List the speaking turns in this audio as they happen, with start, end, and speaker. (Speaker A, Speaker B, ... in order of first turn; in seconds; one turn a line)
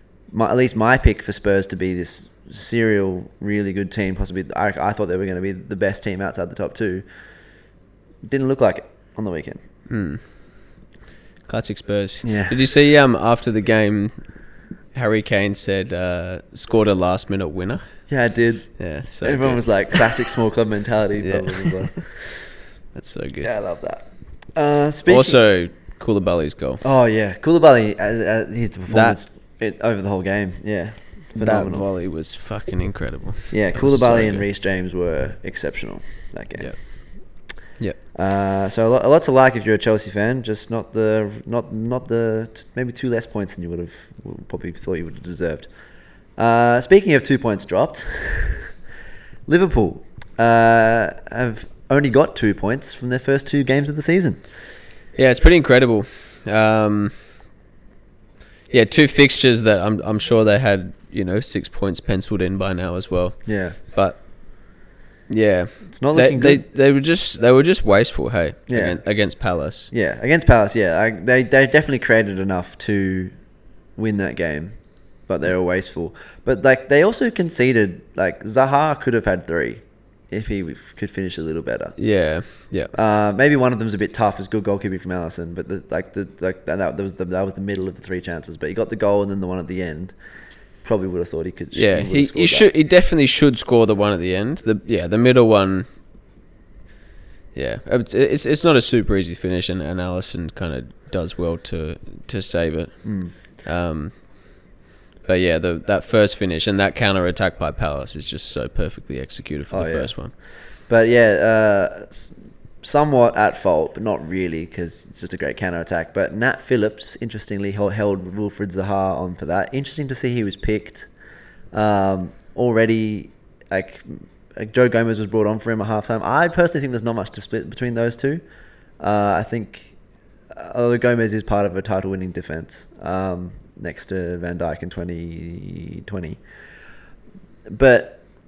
Speaker A: 0.3-7.0
Speaker A: 8.2-9.6
Speaker B: 9.9-10.6
Speaker B: 11.4-14.2
Speaker A: 12.2-12.6
Speaker B: 14.9-17.9
Speaker A: 18.1-22.2
Speaker B: 18.8-20.3
Speaker B: 21.2-22.2
Speaker B: 22.9-23.5
Speaker A: 23.4-25.4
Speaker B: 25.1-26.8
Speaker A: 26.8-31.9
Speaker B: 28.9-29.2
Speaker B: 31.4-34.5
Speaker A: 33.5-37.2
Speaker B: 36.6-38.0
Speaker A: 38.1-45.7
Speaker A: 46.4-48.7
Speaker A: 49.5-54.4
Speaker B: 55.1-57.1
Speaker B: 58.7-64.2
Speaker A: 63.5-63.8
Speaker B: 65.3-69.9
Speaker A: 65.9-66.6
Speaker A: 68.7-69.0
Speaker A: 69.9-73.3
Speaker A: 74.0-82.0
Speaker B: 82.0-82.9
Speaker A: 82.9-90.2
Speaker A: 90.8-92.7
Speaker B: 91.7-95.9
Speaker B: 97.5-104.7
Speaker A: 103.0-103.3
Speaker B: 105.2-110.3
Speaker A: 109.7-110.2
Speaker A: 110.9-121.1
Speaker A: 121.7-128.4
Speaker A: 129.0-129.9
Speaker A: 130.5-136.4
Speaker A: 137.7-138.2